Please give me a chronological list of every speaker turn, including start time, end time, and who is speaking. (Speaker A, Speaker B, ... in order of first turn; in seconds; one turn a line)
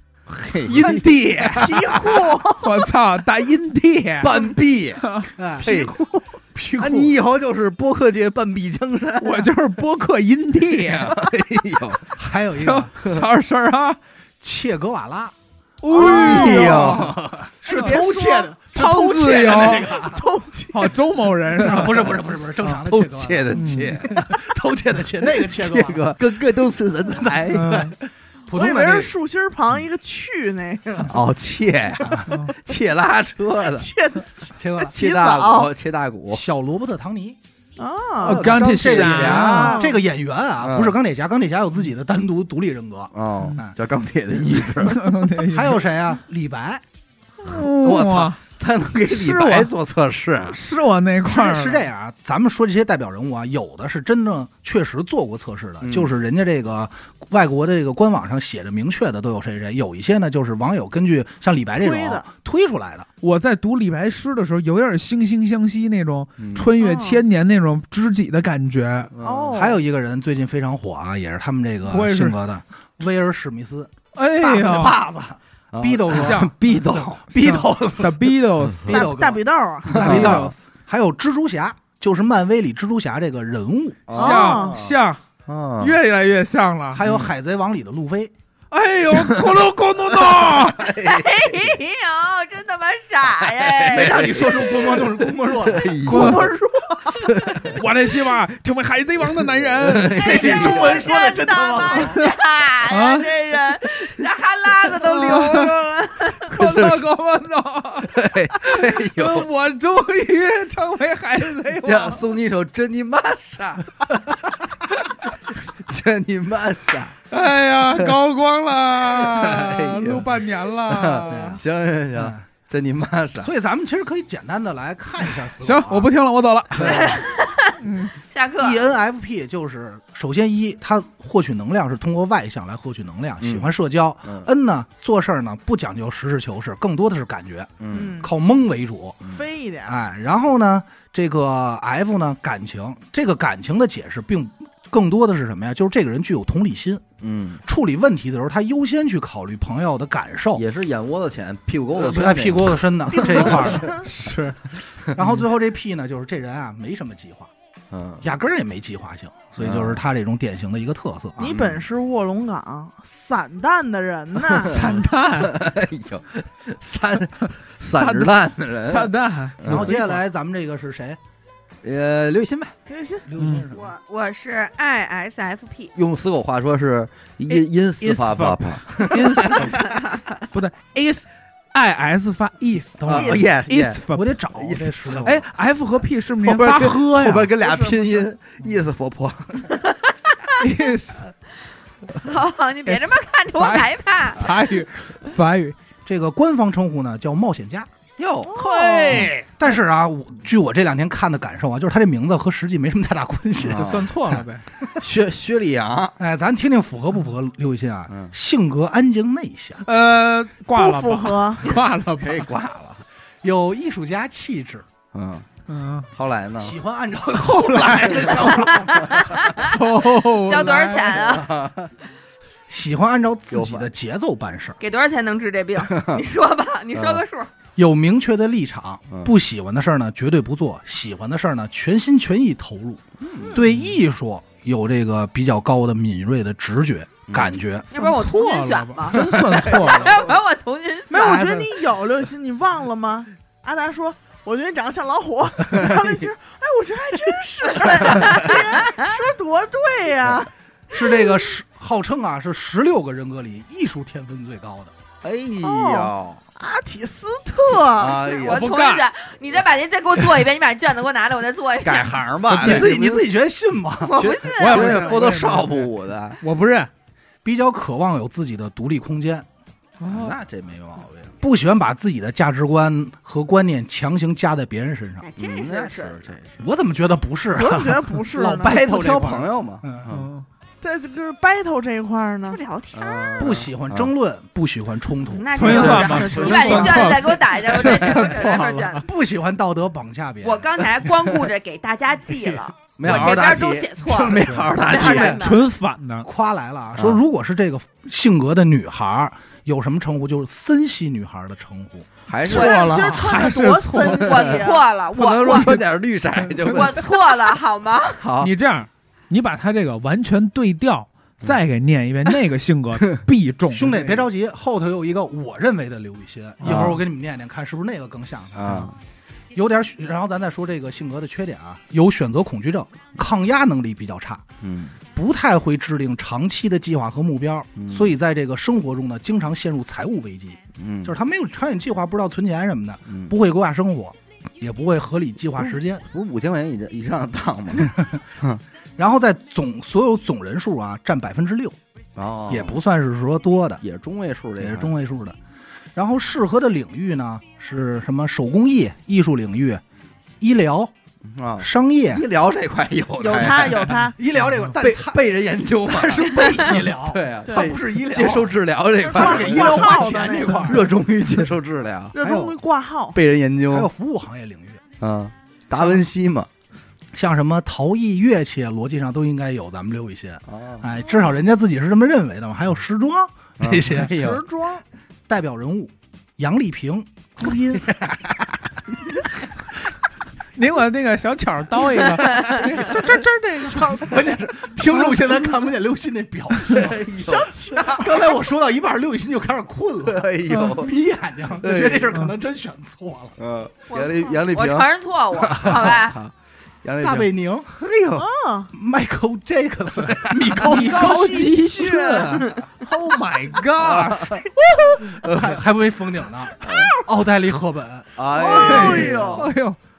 Speaker A: 0.3-2.1
Speaker B: 0.7-1.8
Speaker C: 1.5-2.9
Speaker B: 2.5-4.5
Speaker A: 4.2-5.1
Speaker B: 5.0-5.3
Speaker D: 5.3-5.8
Speaker A: 5.6-5.9
Speaker C: 5.7-6.3
Speaker D: 6.5-7.1
Speaker A: 6.8-9.5
Speaker B: 9.2-11.3
Speaker A: 10.7-12.1
Speaker D: 12.2-12.9
Speaker B: 12.6-14.0
Speaker D: 14.4-15.3
Speaker B: 15.8-18.0
Speaker C: 15.9-17.0
Speaker D: 16.0-16.9
Speaker A: 16.1-17.5
Speaker D: 17.6-20.3
Speaker C: 17.7-21.0
Speaker B: 18.8-19.9
Speaker B: 20.7-22.1
Speaker A: 21.6-22.0
Speaker D: 21.6-26.3
Speaker A: 22.9-24.4
Speaker B: 23.5-24.2
Speaker A: 25.4-27.9
Speaker B: 27.5-27.9
Speaker D: 27.6-27.9
Speaker D: 28.5-29.1
Speaker C: 28.5-31.1
Speaker A: 31.1-33.9
Speaker C: 33.8-35.7
Speaker D: 34.6-35.0
Speaker A: 34.9-36.4
Speaker D: 36.3-37.4
Speaker C: 37.8-38.5
Speaker B: 38.2-39.8
Speaker A: 38.2-39.8
Speaker D: 38.4-43.7
Speaker C: 39.2-40.0
Speaker A: 40.6-41.0
Speaker A: 43.1-45.2
Speaker B: 44.8-45.8
Speaker D: 45.5-46.8
Speaker B: 47.4-48.4
Speaker A: 47.6-50.6
Speaker B: 49.1-49.7
Speaker B: 50.5-51.9
Speaker D: 51.2-63.1
Speaker A: 55.8-56.1
Speaker C: 61.8-62.3
Speaker B: 63.2-69.1
Speaker A: 66.4-66.7
Speaker C: 66.8-67.2
Speaker A: 69.1-69.7
Speaker C: 69.2-69.8
Speaker D: 69.5-76.5
Speaker B: 71.9-72.4
Speaker B: 74.2-75.0
Speaker A: 75.7-77.3
Speaker B: 76.1-76.5
Speaker D: 77.3-78.3
Speaker B: 77.4-79.3
Speaker D: 78.8-84.1
Speaker C: 78.9-80.2
Speaker B: 80.0-80.6
Speaker A: 80.0-80.5
Speaker A: 84.1-86.0
Speaker B: 84.2-85.2
Speaker C: 84.2-84.8
Speaker B: 85.8-87.0
Speaker D: 86.9-88.3
Speaker B: 88.7-91.0
Speaker A: 89.1-89.5
Speaker A: 90.2-91.6
Speaker E: 91.0-94.2
Speaker A: 93.5-96.5
Speaker D: 93.9-96.3
Speaker C: 96.0-97.2
Speaker B: 96.1-96.5
Speaker A: 97.2-97.8
Speaker B: 97.6-100.7
Speaker A: 99.8-101.1
Speaker E: 100.1-106.5
Speaker D: 100.2-102.1
Speaker C: 101.5-102.2
Speaker B: 102.9-103.3
Speaker B: 104.9-105.8
Speaker B: 106.5-112.2
Speaker A: 106.5-107.1
Speaker A: 108.1-109.5
Speaker A: 111.8-113.8
Speaker A: 115.9-117.2
Speaker B: 117.3-121.6
Speaker A: 119.2-120.3
Speaker A: 120.8-123.5
Speaker D: 121.3-121.6
Speaker D: 122.1-122.4
Speaker D: 123.4-126.1
Speaker B: 125.6-127.2
Speaker D: 126.8-127.2
Speaker E: 127.0-127.8
Speaker B: 127.8-128.1
Speaker E: 128.3-128.8
Speaker D: 128.6-139.3
Speaker A: 133.4-133.7
Speaker A: 137.8-138.2
Speaker C: 137.9-138.3
Speaker C: 139.3-140.1
Speaker D: 139.8-147.1
Speaker A: 147.2-147.6
Speaker D: 147.7-150.6
Speaker A: 150.6-154.0
Speaker D: 151.9-154.1
Speaker C: 153.1-154.1
Speaker B: 154.2-154.6
Speaker D: 155.2-157.5
Speaker A: 157.9-158.2
Speaker D: 158.2-161.4
Speaker A: 159.6-160.0
Speaker C: 161.4-164.8
Speaker A: 161.4-161.8
Speaker B: 164.6-165.6
Speaker A: 164.7-169.9
Speaker B: 167.8-170.2
Speaker D: 169.7-171.2
Speaker A: 171.8-172.7
Speaker C: 172.9-173.3
Speaker D: 173.3-173.9
Speaker B: 173.4-173.7
Speaker E: 173.7-175.9
Speaker A: 175.9-179.8
Speaker B: 178.0-184.3
Speaker D: 183.0-183.5
Speaker A: 183.1-184.0
Speaker D: 184.1-185.4
Speaker A: 184.6-185.3
Speaker B: 185.2-187.5
Speaker A: 186.4-189.7
Speaker C: 187.6-188.3
Speaker E: 189.7-190.6
Speaker B: 190.6-191.3
Speaker E: 192.2-194.5
Speaker B: 192.9-195.8
Speaker D: 196.1-197.9
Speaker A: 198.2-199.3
Speaker C: 198.4-199.3
Speaker B: 198.5-199.5
Speaker D: 199.6-204.4
Speaker A: 203.6-204.1
Speaker B: 203.7-204.6
Speaker A: 205.0-206.2
Speaker D: 206.2-209.8
Speaker B: 209.8-212.5
Speaker C: 210.8-211.7
Speaker A: 212.2-213.0
Speaker D: 213.4-214.9
Speaker A: 215.1-215.5
Speaker B: 215.7-216.1
Speaker A: 216.1-216.8
Speaker D: 216.6-219.2
Speaker B: 217.4-218.7
Speaker E: 218.8-219.7
Speaker B: 219.6-221.3
Speaker E: 220.4-221.5
Speaker A: 221.2-221.9
Speaker D: 222.7-224.8
Speaker A: 223.5-223.9
Speaker E: 224.8-227.5
Speaker A: 225.9-226.2
Speaker A: 226.9-227.2
Speaker D: 227.8-237.9
Speaker A: 233.2-233.6
Speaker A: 237.3-237.5
Speaker E: 237.9-241.5
Speaker B: 237.9-240.3
Speaker C: 241.1-251.5
Speaker D: 241.2-241.7
Speaker A: 245.8-246.1
Speaker A: 247.8-248.6
Speaker E: 248.2-249.1
Speaker D: 250.9-254.9
Speaker A: 255.2-256.4
Speaker C: 255.6-258.3
Speaker A: 258.0-258.7
Speaker E: 258.3-262.2
Speaker B: 258.4-259.1
Speaker A: 261.8-263.3
Speaker D: 262.5-264.3
Speaker E: 264.1-265.3
Speaker A: 264.1-266.4
Speaker B: 264.5-265.9
Speaker B: 266.4-266.9
Speaker D: 267.4-269.5
Speaker B: 270.0-270.4
Speaker A: 270.1-271.3
Speaker D: 271.4-275.3
Speaker E: 275.2-276.4
Speaker A: 275.4-276.6
Speaker D: 276.6-280.1
Speaker C: 277.6-278.9
Speaker A: 278.4-280.3
Speaker B: 280.1-280.4
Speaker C: 280.8-282.6
Speaker E: 282.5-283.6
Speaker A: 282.9-284.1
Speaker D: 283.4-286.2
Speaker E: 285.3-289.0
Speaker B: 285.5-289.1
Speaker C: 285.7-287.2
Speaker A: 285.8-287.2
Speaker A: 287.7-288.4
Speaker D: 289.0-290.8
Speaker E: 290.4-295.7
Speaker A: 291.1-291.4
Speaker A: 292.9-295.4
Speaker D: 293.0-295.4
Speaker B: 295.4-296.3
Speaker D: 296.2-302.1
Speaker A: 297.0-297.2
Speaker A: 302.3-303.1
Speaker C: 302.4-304.9
Speaker B: 302.5-304.6
Speaker E: 302.5-302.9
Speaker E: 304.0-305.8
Speaker A: 305.1-307.0
Speaker B: 306.4-307.0
Speaker E: 306.7-308.2
Speaker A: 308.2-308.5
Speaker B: 308.4-314.1
Speaker D: 313.7-318.8
Speaker A: 316.6-317.0
Speaker B: 316.6-316.9
Speaker A: 318.6-318.9
Speaker D: 319.5-324.4
Speaker A: 324.6-325.0
Speaker D: 325.1-336.0
Speaker A: 327.8-328.1
Speaker A: 330.8-331.1
Speaker A: 333.1-333.3
Speaker A: 336.1-338.6
Speaker D: 337.8-338.2
Speaker D: 339.0-341.8
Speaker A: 342.2-342.8
Speaker D: 342.5-343.8
Speaker A: 343.8-344.9
Speaker D: 344.6-345.4
Speaker D: 346.0-349.8
Speaker D: 350.4-350.9
Speaker A: 351.3-354.1
Speaker D: 351.6-352.2
Speaker C: 353.2-354.2
Speaker D: 354.1-360.9
Speaker A: 354.8-360.1
Speaker C: 359.0-360.8
Speaker A: 360.7-362.1
Speaker C: 362.1-363.2
Speaker D: 362.2-362.6
Speaker A: 363.1-363.9
Speaker D: 363.7-364.8
Speaker A: 365.0-366.5
Speaker D: 367.1-374.1
Speaker A: 370.5-370.9
Speaker A: 373.6-374.4
Speaker C: 374.1-374.8
Speaker D: 375.3-377.9
Speaker A: 377.8-378.4
Speaker B: 380.6-384.2
Speaker C: 383.6-384.5
Speaker D: 384.0-387.2
Speaker A: 386.7-387.6
Speaker C: 387.2-388.4
Speaker D: 387.8-393.4
Speaker A: 390.1-390.9
Speaker A: 391.6-392.1
Speaker A: 393.4-394.9
Speaker E: 393.9-396.2
Speaker A: 395.4-396.3
Speaker A: 396.8-398.3
Speaker D: 396.9-397.8
Speaker C: 398.1-398.7
Speaker D: 398.7-402.3
Speaker A: 400.0-400.8
Speaker B: 400.6-404.4
Speaker C: 401.7-402.5
Speaker A: 403.8-404.4
Speaker D: 404.6-408.2
Speaker A: 405.2-405.5
Speaker A: 408.2-409.5
Speaker C: 408.3-409.5
Speaker B: 408.5-409.8